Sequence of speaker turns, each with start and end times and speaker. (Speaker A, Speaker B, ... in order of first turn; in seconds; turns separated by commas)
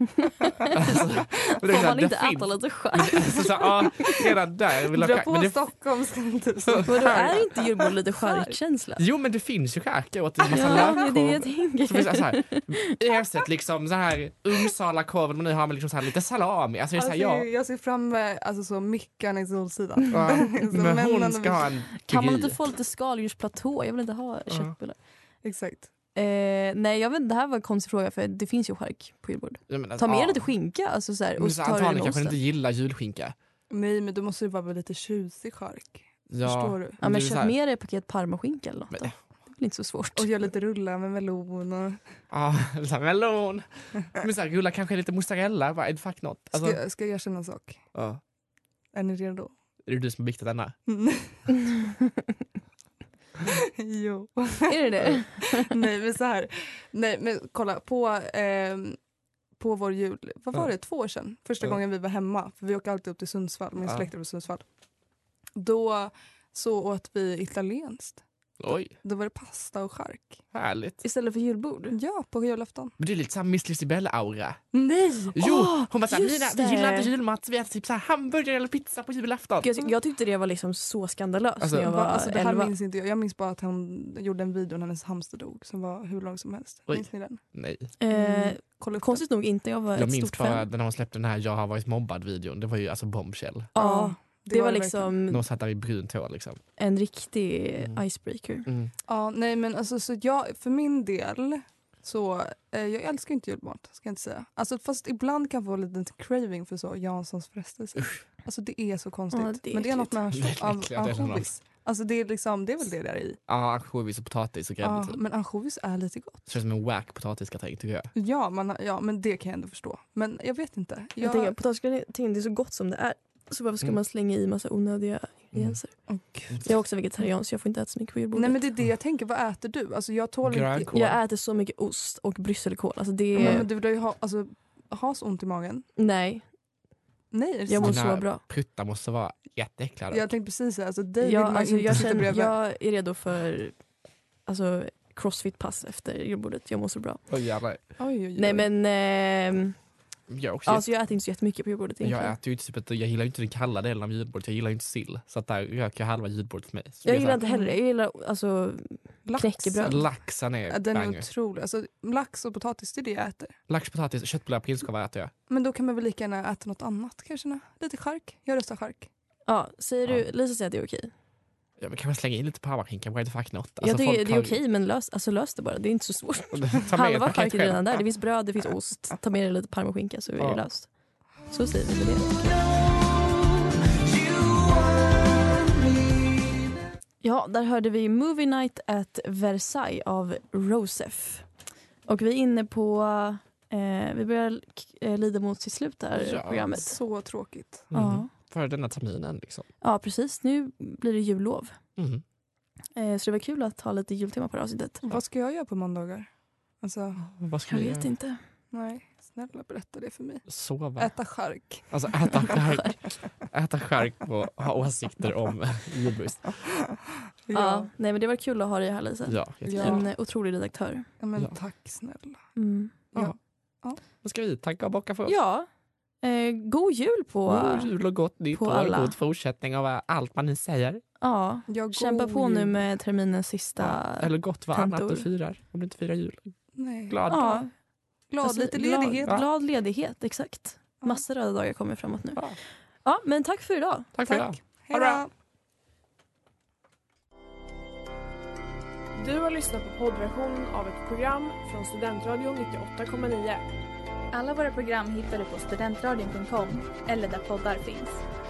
Speaker A: 0.1-4.1, Speaker B: 0.7-5.5, Speaker C: 4.9-8.6, Speaker B: 6.7-7.4, Speaker A: 6.8-9.0, Speaker B: 9.0-17.5, Speaker A: 10.5-12.9, Speaker C: 17.0-21.7, Speaker B: 20.1-22.6, Speaker A: 22.0-25.0, Speaker C: 25.4-25.9, Speaker A: 26.1-32.4, Speaker B: 29.7-30.4, Speaker B: 31.4-33.3, Speaker C: 33.7-37.0, Speaker B: 36.3-37.5, Speaker A: 37.0-40.3, Speaker C: 40.1-42.0, Speaker B: 42.3-46.8, Speaker C: 46.5-47.8, Speaker B: 47.9-48.2, Speaker C: 48.9-49.5, Speaker B: 49.9-50.7, Speaker C: 50.9-51.5, Speaker C: 53.4-59.0, Speaker A: 54.7-55.7, Speaker C: 59.6-64.6, Speaker C: 65.5-68.2, Speaker B: 68.6-68.9, Speaker C: 69.0-70.4, Speaker B: 70.5-71.0, Speaker A: 71.0-72.0, Speaker C: 71.9-72.9, Speaker B: 73.0-74.6, Speaker C: 74.7-75.4, Speaker B: 75.3-79.7, Speaker A: 75.4-77.1, Speaker A: 79.6-82.7, Speaker B: 81.6-81.9, Speaker C: 81.8-87.4, Speaker B: 86.9-87.9, Speaker A: 88.0-90.7, Speaker C: 88.1-89.2, Speaker B: 90.0-93.7, Speaker A: 93.7-95.4, Speaker C: 93.8-95.2, Speaker B: 95.3-96.6, Speaker A: 96.8-98.7, Speaker B: 98.7-98.9, Speaker C: 99.1-113.4, Speaker A: 109.3-110.2, Speaker B: 110.3-111.5, Speaker B: 113.5-115.2, Speaker C: 114.8-116.5, Speaker B: 116.5-118.1, Speaker C: 118.1-121.5, Speaker A: 121.2-125.9, Speaker B: 125.5-125.8, Speaker C: 126.1-126.6, Speaker A: 126.6-128.6, Speaker C: 128.3-130.9, Speaker B: 130.4-131.2, Speaker A: 130.9-133.7, Speaker C: 133.3-135.8, Speaker A: 136.0-136.4, Speaker C: 137.3-138.0, Speaker A: 137.7-138.4, Speaker B: 137.8-140.3, Speaker C: 140.1-142.5, Speaker A: 141.2-143.8, Speaker A: 144.4-147.2, Speaker B: 147.3-147.8, Speaker C: 148.0-148.7, Speaker A: 148.3-149.8, Speaker B: 150.3-150.9, Speaker A: 150.7-152.3, Speaker B: 152.0-157.4, Speaker A: 157.0-160.0, Speaker C: 157.4-157.8, Speaker C: 159.2-159.9, Speaker B: 159.8-161.2, Speaker C: 160.7-163.6, Speaker B: 163.7-165.3, Speaker C: 165.5-169.1, Speaker A: 169.5-171.1, Speaker B: 171.8-174.6, Speaker A: 173.8-180.9, Speaker B: 176.5-178.0, Speaker A: 181.5-182.6, Speaker A: 187.2-191.4, Speaker A: 192.1-197.0, Speaker B: 196.2-196.7, Speaker C: 196.6-197.9, Speaker B: 197.9-199.7, Speaker A: 197.9-198.3, Speaker A: 199.8-201.8, Speaker B: 202.0-202.2, Speaker A: 202.9-205.0, Speaker C: 205.1-206.3, Speaker C: 206.8-207.2, Speaker B: 207.2-208.1, Speaker A: 207.7-208.4, Speaker C: 208.7-210.4, Speaker B: 210.5-211.1, Speaker C: 211.0-211.9, Speaker B: 211.9-213.0, Speaker A: 212.4-212.9, Speaker B: 213.5-216.6, Speaker C: 217.5-217.9, Speaker A: 217.5-221.0, Speaker B: 219.3-220.1, Speaker C: 219.7-220.0, Speaker C: 221.2-222.4, Speaker A: 222.6-222.9, Speaker C: 223.1-224.0, Speaker B: 224.2-225.4, Speaker A: 225.3-225.7, Speaker A: 226.2-227.9, Speaker B: 227.5-231.0, Speaker A: 228.5-229.1, Speaker A: 231.2-235.2, Speaker C: 231.7-232.8, Speaker B: 233.8-236.5, Speaker C: 236.8-237.5, Speaker B: 237.1-237.6, Speaker A: 237.3-237.7, Speaker C: 238.3-239.4, Speaker A: 238.4-242.5, Speaker A: 243.0-244.1, Speaker B: 244.1-245.2, Speaker C: 244.3-245.3, Speaker D: 249.1-253.6, Speaker E: 254.3-258.2